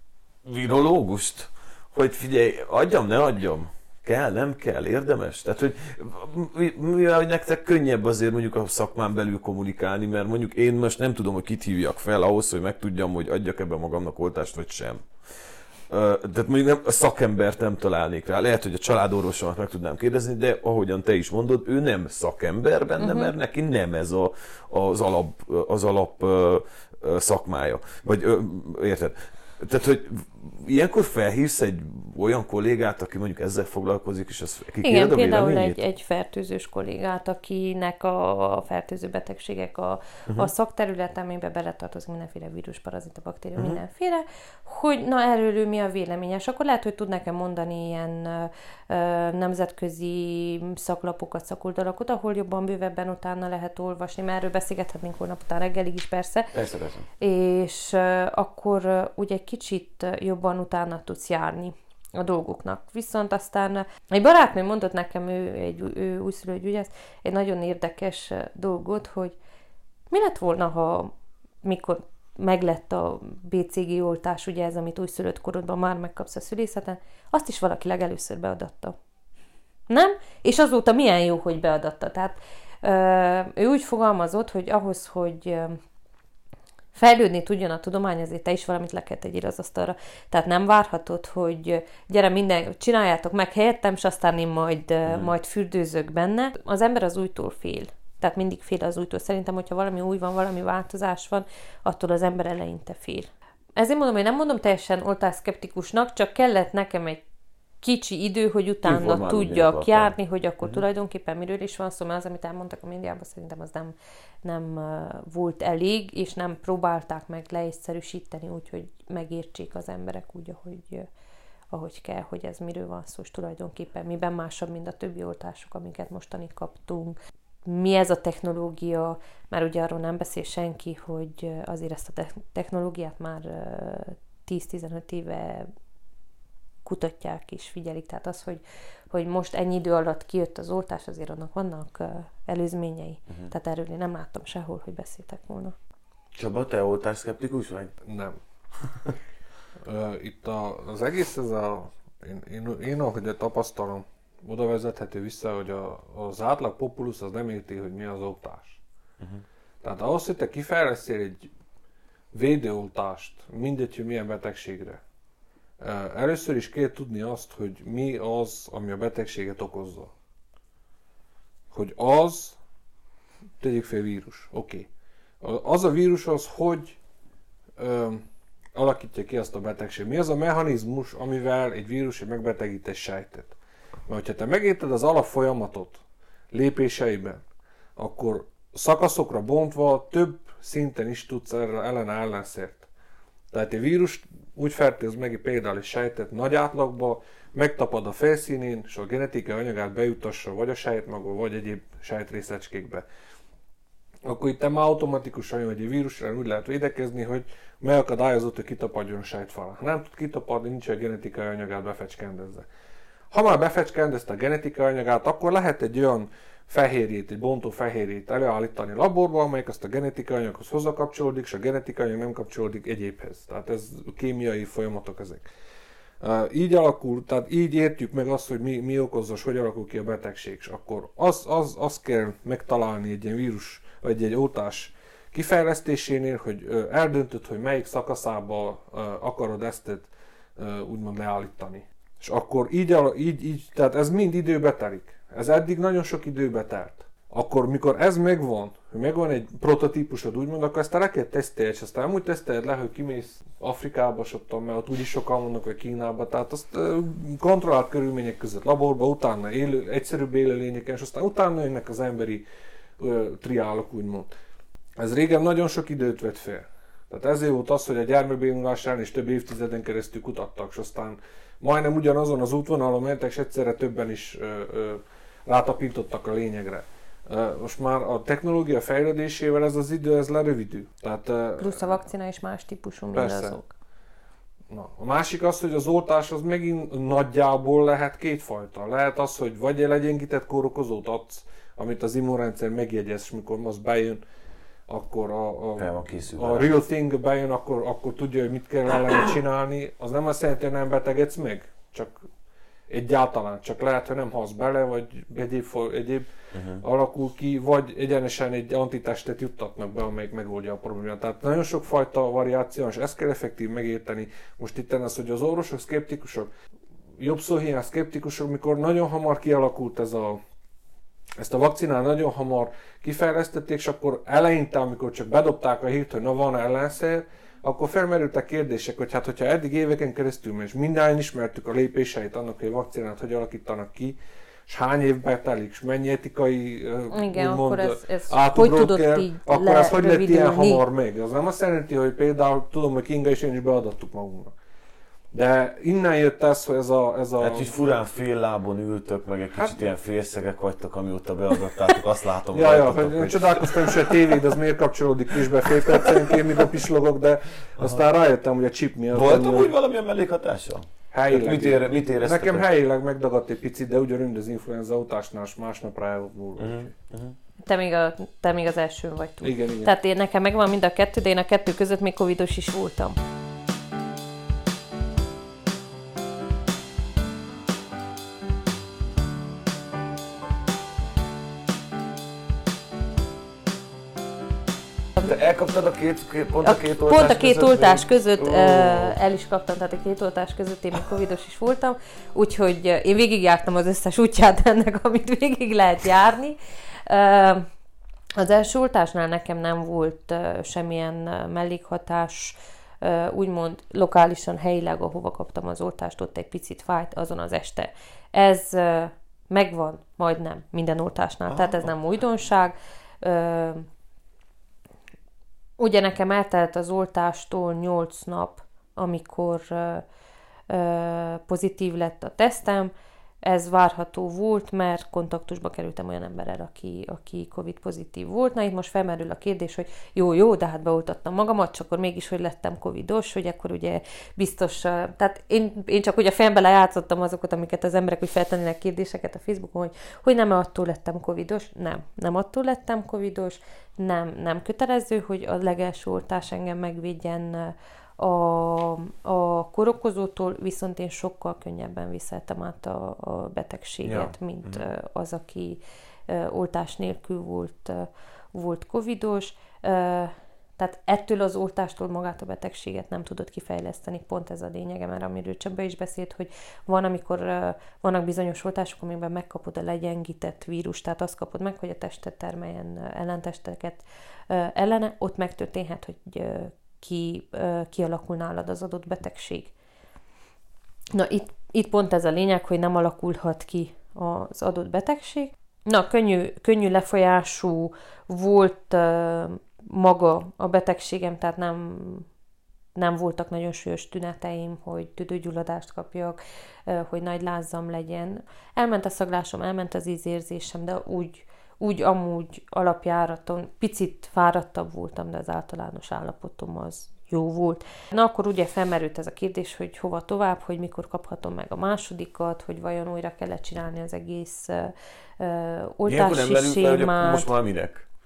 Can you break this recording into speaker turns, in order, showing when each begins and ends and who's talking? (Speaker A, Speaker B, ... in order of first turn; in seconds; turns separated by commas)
Speaker A: 0.5-35.8, Speaker B: 23.0-23.3, Speaker B: 34.8-56.5, Speaker A: 56.5-57.1, Speaker B: 57.2-69.4, Speaker B: 70.1-79.0, Speaker B: 79.9-85.8, Speaker B: 87.0-107.2, Speaker A: 95.1-95.3, Speaker B: 107.8-121.1, Speaker A: 108.8-110.8, Speaker B: 121.7-135.7, Speaker B: 136.8-145.8, Speaker A: 146.4-147.9, Speaker C: 148.0-148.4, Speaker C: 149.8-158.8, Speaker C: 159.8-161.5, Speaker C: 162.3-165.0, Speaker C: 165.8-170.1, Speaker C: 171.7-172.6, Speaker C: 173.6-174.9, Speaker C: 175.4-177.0, Speaker C: 177.8-183.5, Speaker C: 184.1-187.4, Speaker C: 188.0-192.9, Speaker C: 193.5-203.1, Speaker C: 204.2-212.7, Speaker C: 213.3-225.5, Speaker C: 226.2-262.4, Speaker C: 263.0-264.3, Speaker C: 265.0-282.0, Speaker B: 281.6-283.7, Speaker C: 283.1-283.6, Speaker C: 284.7-294.2, Speaker C: 294.9-302.3, Speaker A: 295.8-296.7, Speaker C: 302.9-306.3, Speaker A: 306.5-306.8, Speaker C: 306.8-316.5, Speaker C: 317.2-320.4, Speaker C: 321.4-344.5, Speaker B: 337.1-340.8, Speaker C: 345.3-347.7, Speaker A: 347.4-354.6, Speaker C: 352.5-359.7, Speaker A: 355.5-356.7, Speaker A: 359.1-362.7, Speaker C: 361.1-366.9, Speaker A: 366.6-367.4, Speaker B: 367.6-373.2, Speaker C: 369.4-369.9, Speaker A: 385.2-389.2, Speaker B: 386.6-397.7, Speaker B: 398.4-413.9, Speaker A: 411.5-411.9, Speaker B: 415.8-420.1, Speaker B: 420.7-422.9, Speaker B: 423.4-479.7, Speaker A: 454.1-454.9, Speaker B: 481.1-492.3, Speaker B: 492.9-517.5, Speaker A: 516.1-518.1